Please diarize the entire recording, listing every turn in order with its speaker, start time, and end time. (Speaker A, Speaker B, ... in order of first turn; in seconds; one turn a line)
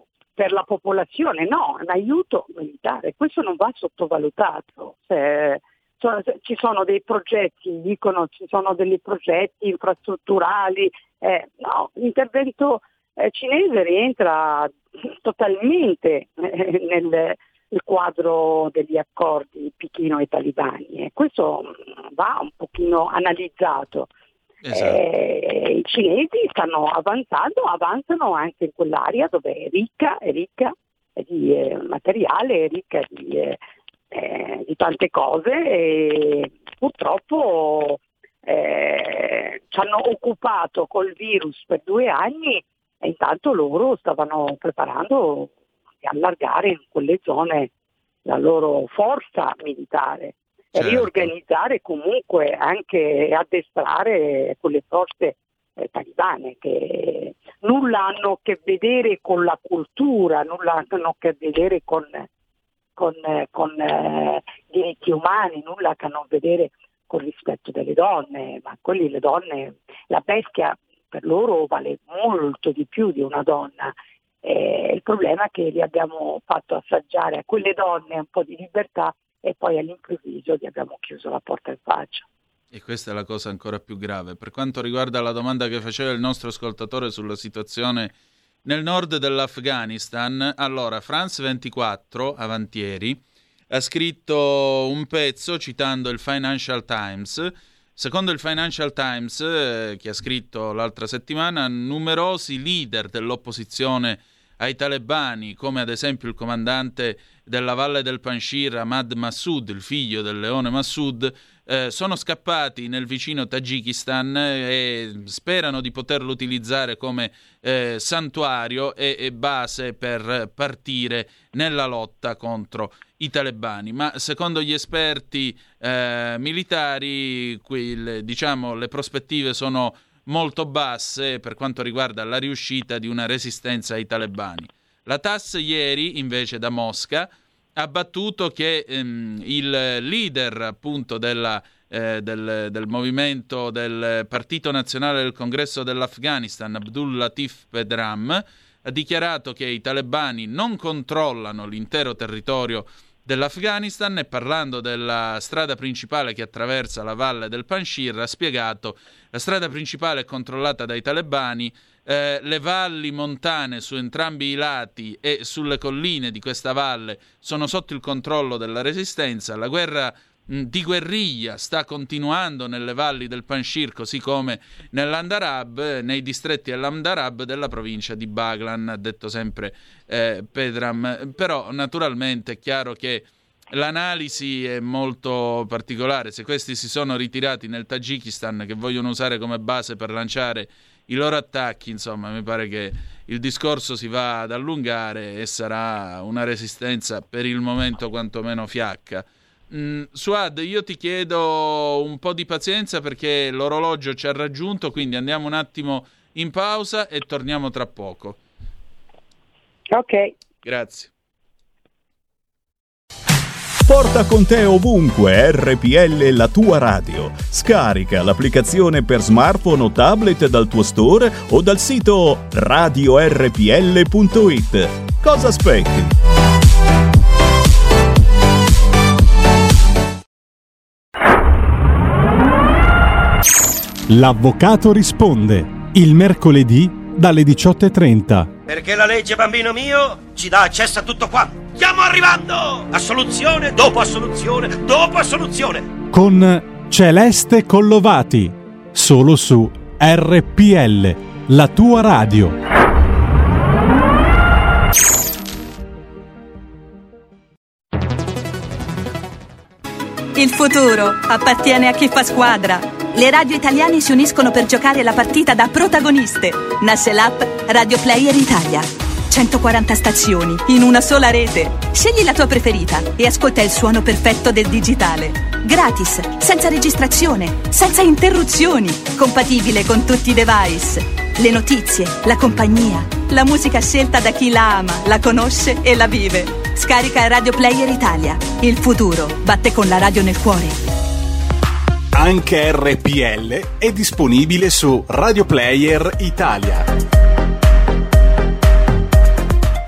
Speaker A: 0.4-24.1
Speaker B: 24.6-25.0
Speaker A: 24.7-33.6
Speaker A: 34.1-47.7
Speaker A: 48.3-62.3
Speaker B: 50.8-51.3
Speaker A: 63.0-82.3
Speaker B: 82.7-88.1
Speaker B: 88.7-208.4
Speaker A: 209.9-210.4
Speaker B: 210.6-211.1
Speaker C: 213.9-226.1
Speaker D: 234.1-238.5
Speaker E: 238.7-245.9
Speaker D: 246.1-252.6
Speaker F: 260.4-290.9
Speaker D: 292.1-296.9